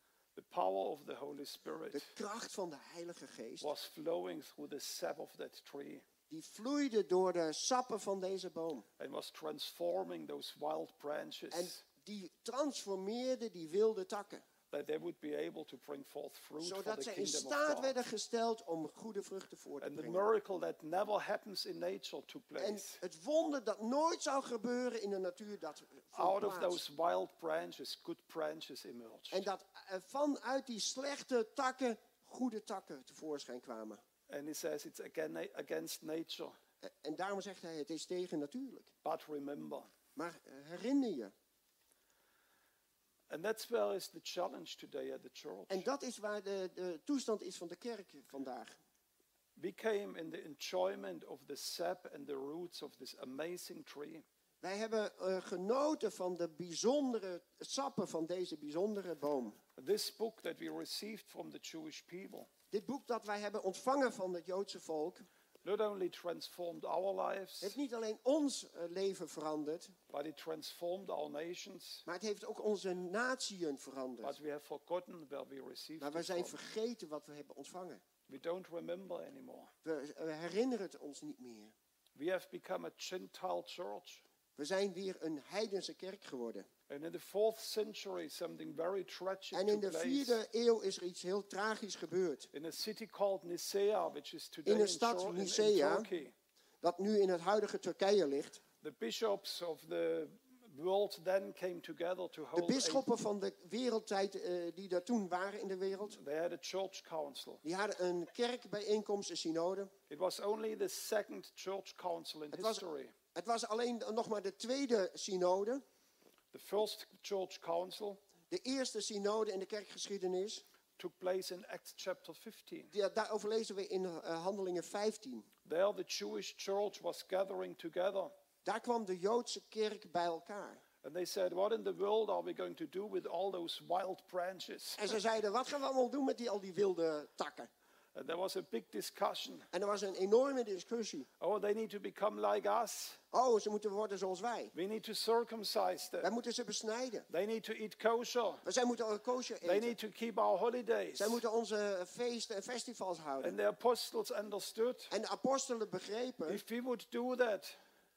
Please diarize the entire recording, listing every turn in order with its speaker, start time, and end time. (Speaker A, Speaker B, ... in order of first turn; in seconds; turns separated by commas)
Speaker A: 0.3-2.1, Speaker B: 1.9-3.7, Speaker A: 3.6-6.0, Speaker B: 6.3-8.9, Speaker A: 9.0-11.8, Speaker B: 11.5-14.4, Speaker A: 14.7-17.9, Speaker B: 16.6-20.3, Speaker A: 19.8-23.0, Speaker B: 22.6-26.8, Speaker A: 26.1-29.5, Speaker B: 29.3-34.0, Speaker A: 34.3-36.6, Speaker B: 36.8-38.9, Speaker A: 39.0-39.9, Speaker B: 40.2-41.3, Speaker A: 43.3-45.9, Speaker B: 45.7-48.8, Speaker A: 49.6-54.2, Speaker B: 54.6-59.6, Speaker A: 59.8-62.5, Speaker B: 62.7-65.2, Speaker A: 65.6-67.8, Speaker B: 67.6-70.0, Speaker A: 70.1-72.0, Speaker B: 72.1-74.4, Speaker A: 74.2-76.6, Speaker B: 76.0-78.0, Speaker A: 78.3-79.7, Speaker B: 79.8-81.8, Speaker A: 82.2-84.2, Speaker B: 84.6-86.7, Speaker A: 86.9-90.4, Speaker B: 89.5-92.5, Speaker A: 92.5-96.3, Speaker B: 94.7-96.1, Speaker B: 96.8-98.6, Speaker A: 98.8-103.1, Speaker B: 102.5-106.2, Speaker A: 106.1-107.6, Speaker B: 107.6-109.9, Speaker A: 110.1-113.2, Speaker B: 112.5-112.8, Speaker B: 113.3-115.8, Speaker A: 116.5-118.2, Speaker B: 118.5-120.6, Speaker A: 121.0-122.9, Speaker B: 122.9-125.5, Speaker A: 125.7-128.3, Speaker B: 128.7-130.8, Speaker A: 131.0-135.2, Speaker B: 135.0-137.7, Speaker A: 138.2-139.7, Speaker B: 139.7-141.3, Speaker A: 141.4-143.2, Speaker B: 143.3-144.7, Speaker A: 144.7-146.3, Speaker B: 146.2-147.3, Speaker A: 147.3-148.7, Speaker B: 148.7-150.0, Speaker A: 149.6-151.4, Speaker B: 151.2-153.6, Speaker A: 153.4-155.1, Speaker B: 155.1-156.6, Speaker A: 156.5-157.8